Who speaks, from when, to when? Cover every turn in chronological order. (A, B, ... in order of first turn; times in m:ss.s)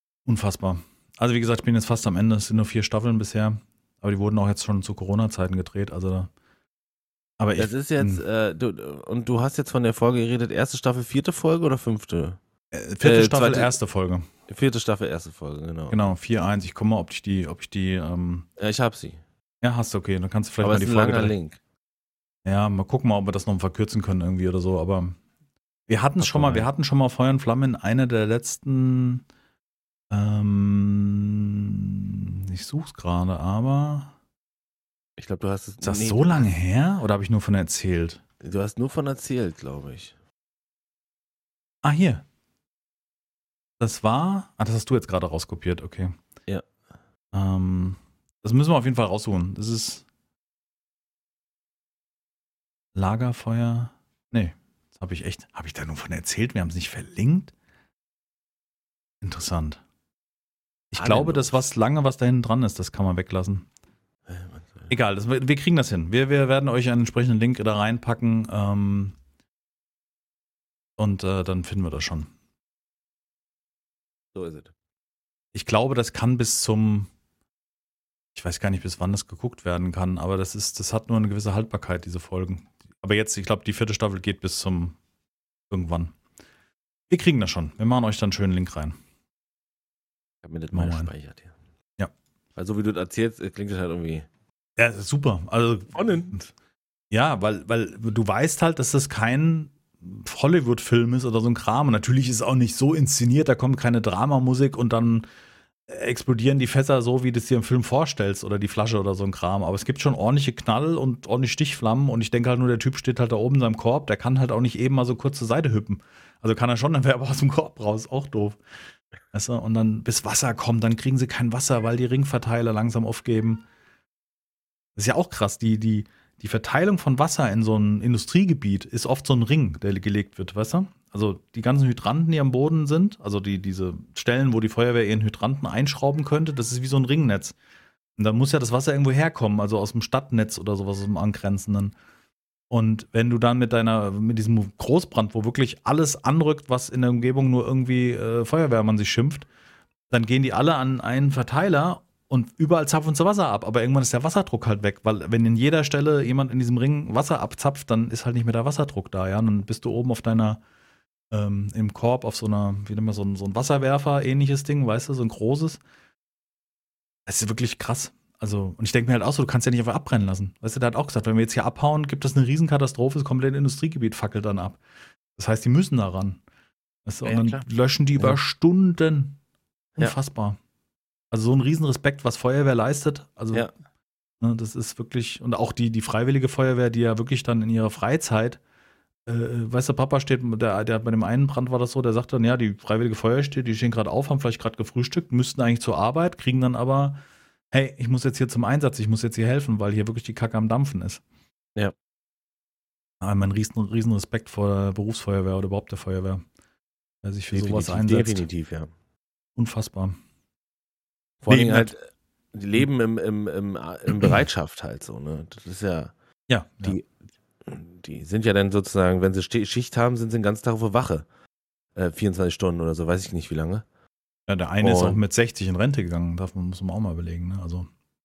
0:00.2-0:06.3 A
0:07.4-0:08.2 A
0:07.6-0:12.4 B
0:12.7-0:14.3 A
0:13.0-0:13.7 B
0:14.5-0:16.1 B
0:15.9-0:18.4 A
0:18.6-0:19.2 B
0:19.6-0:21.3 A
0:20.6-0:21.6 B
0:22.4-0:25.2 A
0:25.9-0:29.2 A
0:26.2-0:26.7 B
0:30.1-0:34.1 A
0:35.2-0:36.5 B
0:35.8-0:38.2 A
0:38.4-0:40.1 B
0:41.8-0:42.2 A
0:43.8-0:46.1 A
0:47.3-0:50.0 A
0:52.9-0:57.5 A
0:59.2-0:59.8 A
1:00.9-1:03.7 A
1:01.0-1:01.6 B
1:04.3-1:04.9 B
1:04.9-1:09.2 A
1:11.0-1:12.3 A
1:14.3-1:14.7 B
1:15.5-1:17.1 A
1:18.3-1:25.0 A
1:25.7-1:26.1 A
1:27.1-1:29.0 A
1:30.4-1:31.5 B
1:30.7-1:31.1 A
1:32.6-1:34.3 B
1:34.8-1:36.5 A
1:35.9-1:36.4 B
1:37.1-1:45.3 A
1:45.9-1:58.6 A
1:59.3-2:03.6 A
2:05.0-2:17.6 A
2:18.2-2:21.9 A
2:22.7-2:29.5 A
2:30.1-2:40.6 A
2:41.3-2:45.8 A
2:47.3-2:54.8 A
2:55.4-2:56.4 A
2:57.0-2:59.4 A
2:57.2-2:57.6 B
3:00.0-3:00.6 A
3:01.3-3:03.7 A
3:04.4-3:08.6 A
3:09.2-3:17.2 A
3:17.7-3:21.2 A
3:23.2-3:26.4 A
3:27.2-3:28.5 A
3:27.5-3:28.9 B
3:29.6-3:30.2 A
3:31.4-3:32.0 B
3:31.5-3:31.9 A
3:32.5-3:36.1 B
3:36.5-3:37.0 A
3:37.6-3:41.2 B
3:42.0-3:43.8 B
3:44.5-3:47.9 A
3:44.8-3:45.2 B